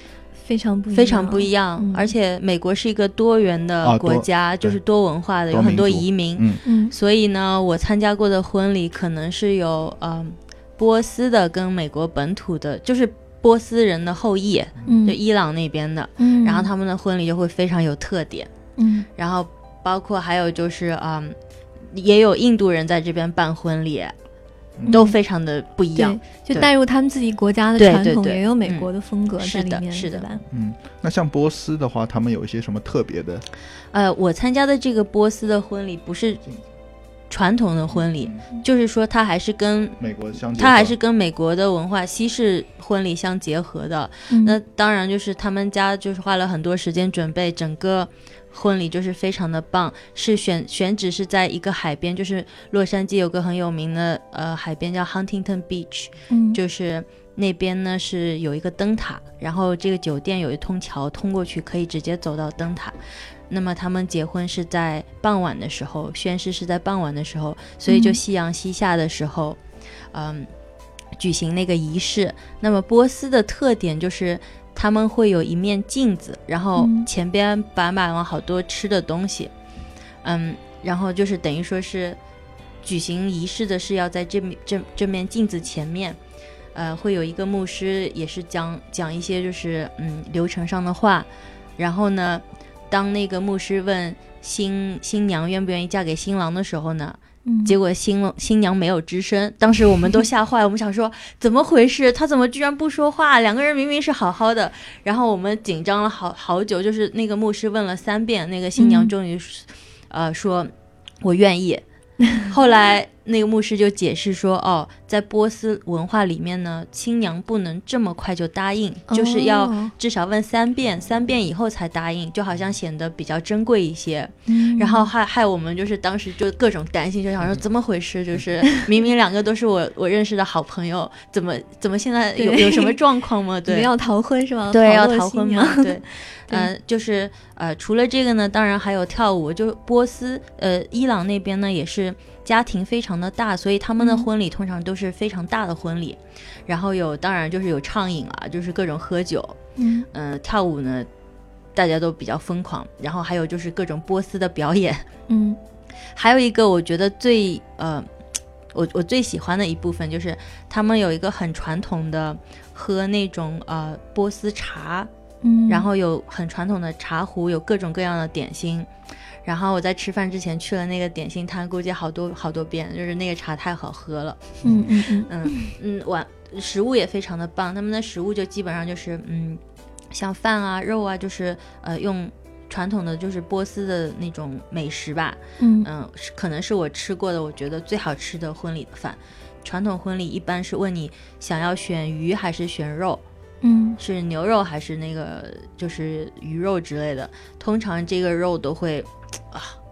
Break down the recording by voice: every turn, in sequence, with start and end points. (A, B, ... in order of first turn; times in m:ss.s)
0:00.4-0:02.1 A
0:00.9-0:18.5 B
0:03.8-0:04.8 C
0:05.5-0:06.6 C
0:06.6-0:06.9 A
0:14.9-0:15.2 A
0:16.2-0:16.7 A
0:18.8-0:19.1 A
0:19.2-0:24.2 B
0:24.9-0:26.7 B
0:24.9-0:25.2 A
0:26.0-0:30.4 A
0:27.8-0:30.2 B
0:30.5-0:33.4 C
0:33.9-0:36.4 B
0:37.3-1:03.0 B
0:38.0-0:38.4 C
0:40.0-0:41.0 C
0:44.3-0:44.6 A
0:56.3-0:56.6 A
1:03.5-1:09.6 B
1:07.9-1:08.2 A
1:10.1-1:10.5 B
1:11.2-1:19.5 B
1:16.8-1:17.1 A
1:20.2-1:22.2 B
1:22.8-1:26.2 B
1:26.7-1:51.8 B
1:37.5-1:37.8 A
1:48.8-1:49.1 A
1:52.4-2:13.9 B
1:59.1-1:59.9 A
2:04.5-2:05.1 A
2:12.4-2:13.0 A
2:13.7-2:16.7 A
2:14.7-2:29.6 B
2:24.0-2:24.3 A
2:29.8-2:30.1 A
2:30.1-2:31.1 B
2:31.8-2:35.1 B
2:35.3-2:35.6 A
2:36.1-2:38.1 B
2:38.7-2:45.1 B
2:45.4-2:45.9 A
2:45.7-2:48.9 B
2:49.4-2:54.6 B
2:54.6-2:54.9 C
2:54.7-2:55.7 A
2:55.3-2:59.6 B
3:00.1-3:13.2 B
3:05.6-3:05.9 A
3:13.6-3:14.0 A
3:14.0-3:19.8 B